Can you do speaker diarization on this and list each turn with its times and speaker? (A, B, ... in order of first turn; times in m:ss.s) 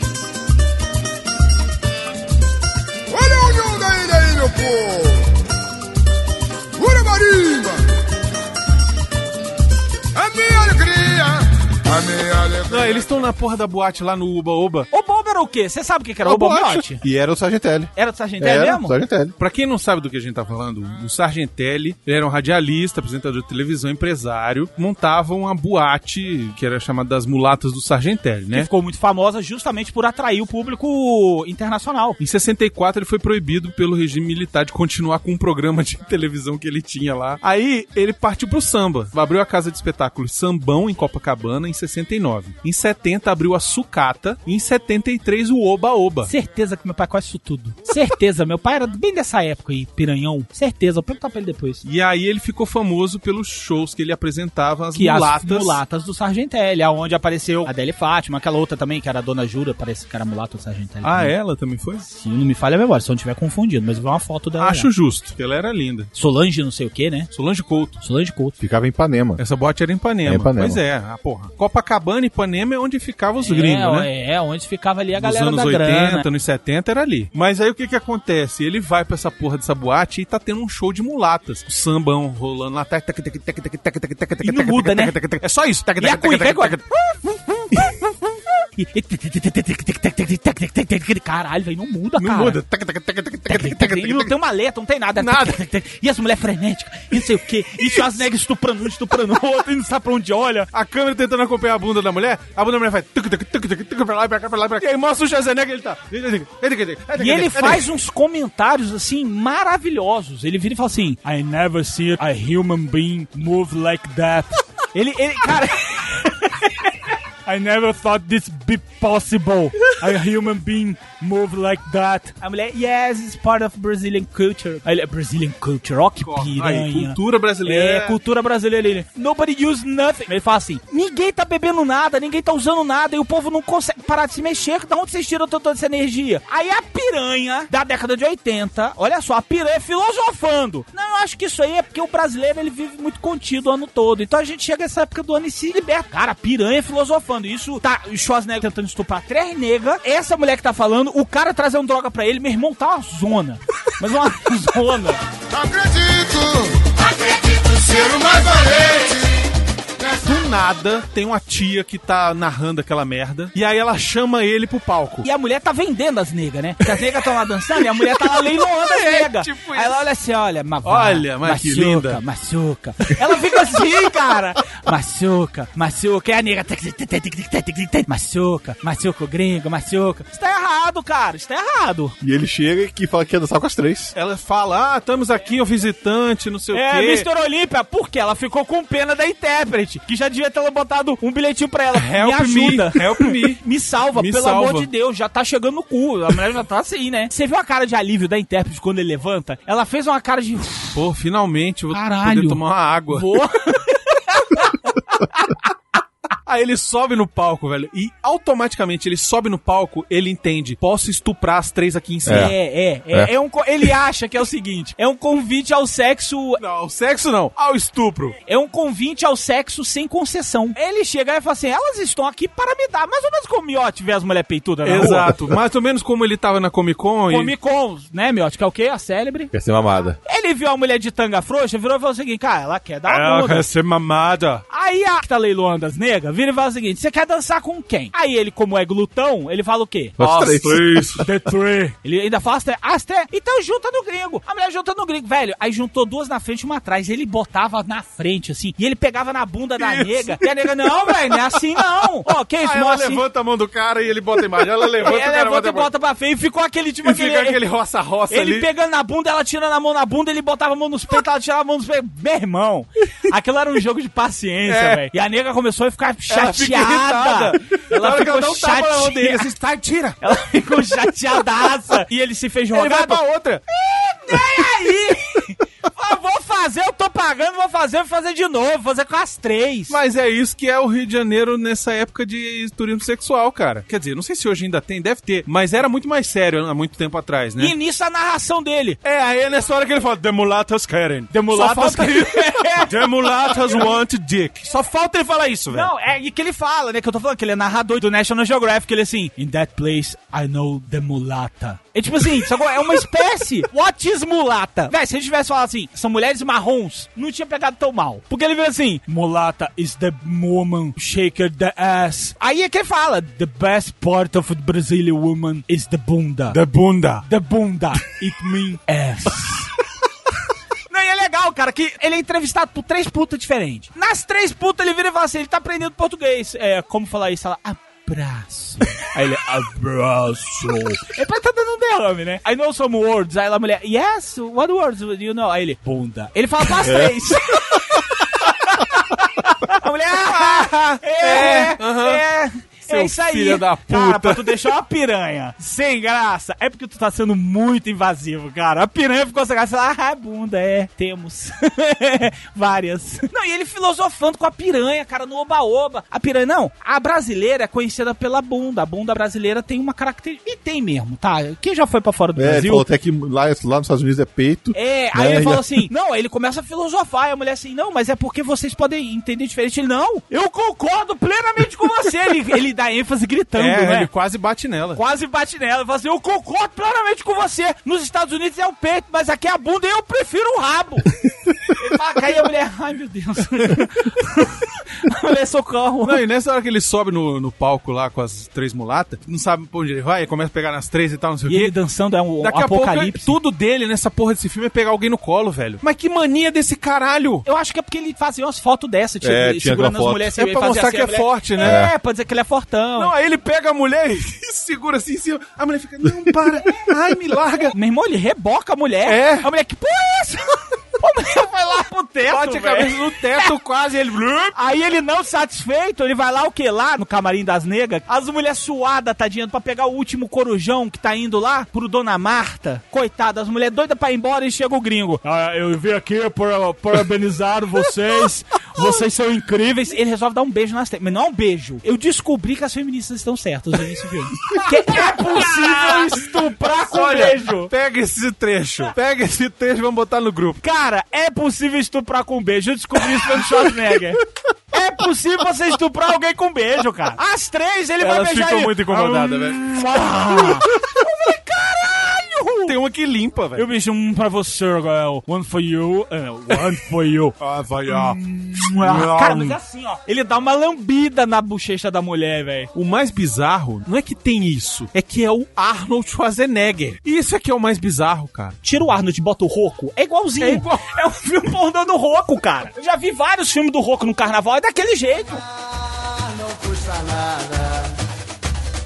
0:03.1-0:05.3 A
0:06.8-0:07.8 A
0:10.2-0:13.0 A
0:12.7-0:14.9 B
0:14.9-0:17.0 C
0:16.3-0:19.3 D
0:18.0-0:19.0 C
0:19.4-0:28.7 B
0:28.5-0:32.2 C
0:32.2-0:46.3 B
0:46.3-0:51.8 C
0:51.8-0:55.8 B
0:55.0-1:01.3 C
1:01.0-1:02.1 B
1:02.1-1:04.9 C
1:04.6-1:06.1 B
1:06.2-1:07.3 C
1:07.3-1:08.0 B
1:08.0-1:08.6 C
1:08.6-1:09.4 D
1:09.4-1:14.1 B
1:10.3-1:10.8 D
1:13.4-1:16.3 C
1:15.2-1:26.9 B
1:24.4-1:25.2 C
1:26.0-1:28.0 C
1:28.8-1:32.6 C
1:32.2-1:34.3 B
1:33.5-1:40.7 C
1:35.2-1:35.6 B
1:37.8-1:38.1 B
1:40.7-1:47.9 B
1:47.2-1:56.9 C
1:57.5-2:35.2 C
2:06.2-2:08.2 B
2:35.6-2:36.7 A
2:37.7-2:39.1 A
2:40.0-2:45.3 B
2:45.3-3:02.2 C
2:48.1-2:50.0 B
2:50.8-2:52.2 B
3:02.2-3:04.1 D
3:04.1-3:07.3 B
3:06.7-3:21.0 C
3:11.9-3:13.6 B
3:14.2-3:14.9 B
3:20.9-3:23.3 B
3:21.9-3:22.6 C
3:23.1-3:25.5 C
3:26.5-3:32.6 B
3:32.3-3:32.5 D
3:32.3-3:36.6 C
3:36.6-3:38.4 B
3:38.5-3:45.4 C
3:44.8-3:47.5 B
3:47.3-3:49.5 C
3:49.5-3:50.2 D
3:50.3-3:53.7 C
3:53.1-3:54.6 B
3:54.7-4:00.2 C
4:00.2-4:01.1 D
4:00.2-4:01.2 B
4:01.2-4:13.2 C
4:09.8-4:11.4 B
4:12.6-4:15.9 B
4:15.0-4:17.6 C
4:17.0-4:18.7 B
4:18.3-4:29.5 C
4:24.7-4:25.0 B
4:26.3-4:30.2 B
4:30.2-4:33.2 C
4:32.7-4:33.6 B
4:33.8-4:40.0 C
4:39.9-4:47.7 B
4:47.6-4:49.0 C
4:49.0-4:55.9 B
4:51.3-4:53.9 C
4:55.7-5:16.6 C
5:16.5-5:17.3 B
5:17.2-5:19.7 C
5:20.9-6:02.8 C
5:36.8-5:37.2 D
5:40.3-5:42.2 B
5:42.9-5:44.6 B
6:02.4-6:05.8 D
6:04.7-6:14.1 C
6:13.6-6:15.0 B
6:15.0-6:21.1 C
6:21.7-6:26.2 C
6:26.0-6:31.7 B
6:31.5-6:33.4 C
6:32.4-6:37.4 B
6:37.4-6:43.1 C
6:39.2-6:40.4 D
6:40.4-6:41.8 B
6:41.6-6:41.9 D
6:43.0-6:47.7 B
6:47.7-6:53.5 C
6:49.1-6:49.5 B
6:52.3-6:54.5 B
6:54.6-7:17.7 C
7:14.5-7:20.6 B
7:20.6-7:32.8 C
7:28.0-7:30.6 B
7:32.7-7:33.7 B
7:33.6-7:37.3 C
7:37.4-7:39.6 B
7:37.9-7:42.7 C
7:42.8-7:48.6 B
7:48.6-7:55.4 C
7:50.4-7:50.9 B